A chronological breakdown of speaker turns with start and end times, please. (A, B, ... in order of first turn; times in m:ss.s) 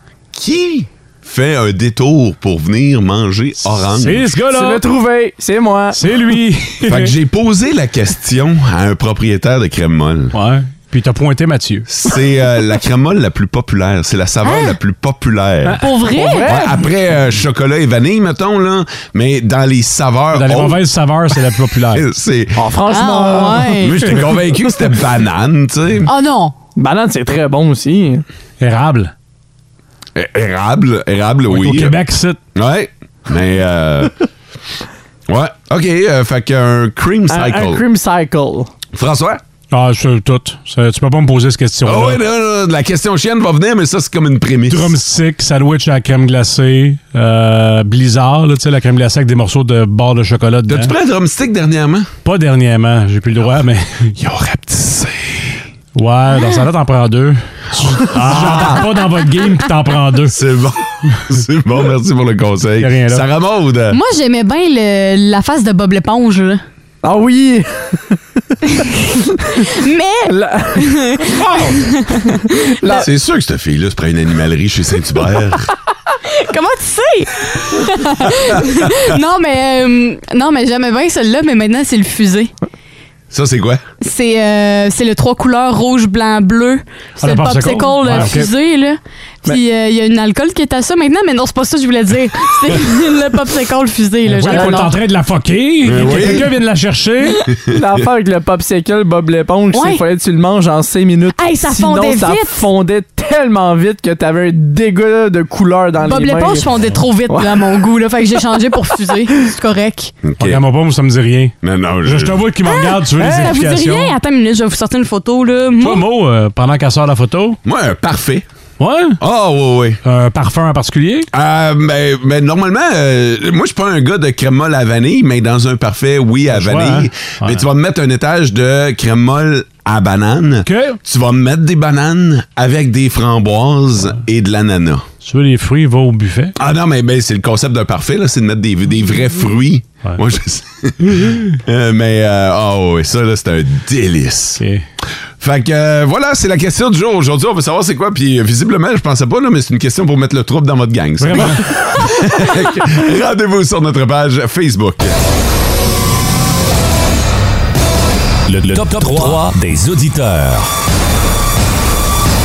0:00.3-0:04.3 A
0:03.9-0:04.8 B
0:04.4-0:06.0 C
0:05.9-0:07.1 B
0:06.9-0:10.3 A
0:10.3-0:11.9 B
0:11.9-0:15.8 A
0:14.4-0:14.8 D
0:15.8-0:16.5 D
0:16.1-0:16.9 C
0:16.4-0:20.8 A
0:20.3-0:22.0 B
0:21.3-0:22.7 A
0:22.6-0:23.8 C
0:22.9-0:24.0 D
0:23.8-0:26.1 A
0:26.0-0:26.5 D
0:26.8-0:28.2 C
0:28.6-0:29.1 B
0:30.1-0:32.0 A
0:31.5-0:32.4 B
0:32.5-0:34.1 A
0:35.3-0:37.8 A
0:37.3-0:38.7 C
0:38.9-0:39.4 A
0:39.7-0:42.2 B
0:41.8-0:45.0 A
0:44.7-0:50.9 B
0:50.7-0:52.1 A
0:52.2-0:54.1 B
0:54.2-0:55.6 A
0:55.9-1:00.4 B
0:58.1-0:58.8 A
1:00.3-1:04.0 A
1:02.8-1:03.2 B
1:03.9-1:06.6 D
1:07.0-1:08.2 C
1:09.4-1:13.0 D
1:10.3-1:13.1 C
1:12.9-1:15.7 A
1:16.2-1:22.5 D
1:23.3-1:23.8 A
1:24.0-1:34.9 D
1:27.2-1:28.5 B
1:28.1-1:28.4 C
1:34.2-1:37.5 B
1:34.4-1:34.9 C
1:35.8-1:36.5 A
1:37.7-1:46.7 C
1:39.7-1:40.0 D
1:41.4-1:42.6 D
1:46.0-1:50.1 D
1:47.3-1:47.8 C
1:50.2-1:50.6 A
1:50.4-1:54.1 B
1:51.6-1:52.4 A
1:52.6-1:56.0 D
1:53.2-1:53.5 C
1:55.8-1:57.6 B
1:57.6-1:58.4 A
1:58.8-1:59.2 B
1:59.2-2:00.0 A
2:00.0-2:01.3 B
2:01.3-2:15.1 A
2:06.5-2:07.6 B
2:10.6-2:11.0 B
2:15.2-2:16.5 B
2:16.6-2:24.6 A
2:21.2-2:21.4 B
2:25.4-2:35.2 A
2:31.2-2:31.7 B
2:38.5-2:40.7 E